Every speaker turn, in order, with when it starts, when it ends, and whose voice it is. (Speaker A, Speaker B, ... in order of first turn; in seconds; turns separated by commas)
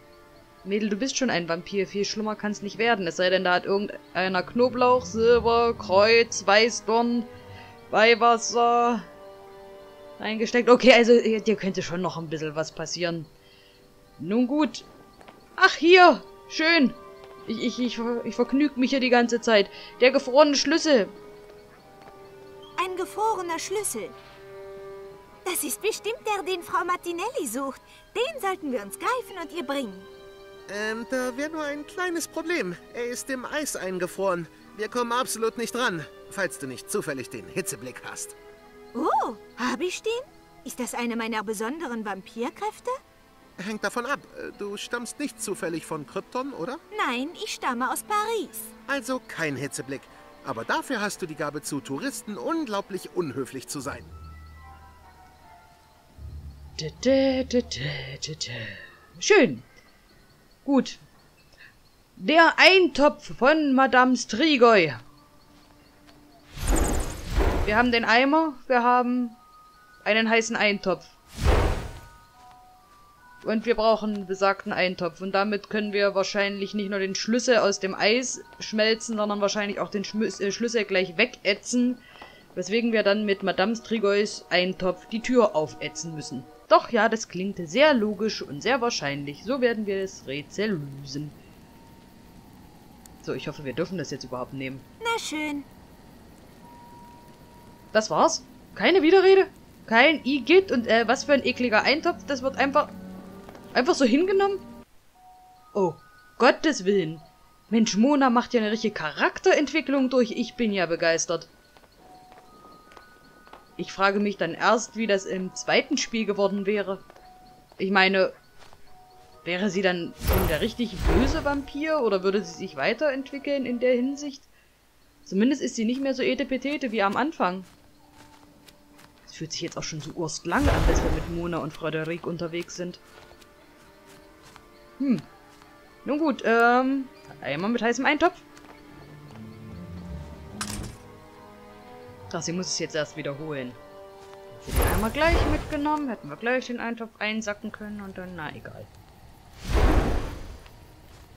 Speaker A: 0.6-7.3, Speaker A: 7.9-9.1, Speaker A: 10.2-13.3, Speaker A: 14.2-14.8, Speaker A: 15.6-21.1, Speaker B: 22.8-24.1, Speaker B: 25.4-30.1, Speaker C: 30.7-38.4, Speaker B: 38.9-43.0, Speaker C: 43.6-46.8, Speaker B: 46.9-48.7, Speaker C: 48.9-54.1, Speaker A: 56.8-59.6, Speaker A: 60.6-61.0, Speaker A: 62.2-65.0, Speaker A: 67.6-69.4, Speaker A: 70.0-71.1, Speaker A: 73.4-82.0, Speaker A: 82.5-91.3, Speaker A: 93.2-94.8, Speaker B: 95.0-95.7, Speaker A: 97.9-102.9, Speaker A: 103.7-104.6, Speaker A: 105.7-111.5, Speaker A: 113.8-117.0, Speaker A: 117.8-118.3, Speaker A: 119.4-124.5, Speaker A: 125.2-127.7, Speaker A: 129.2-133.0, Speaker A: 135.0-135.2, Speaker A: 136.0-138.4, Speaker A: 142.3-143.8, Speaker A: 144.5-148.9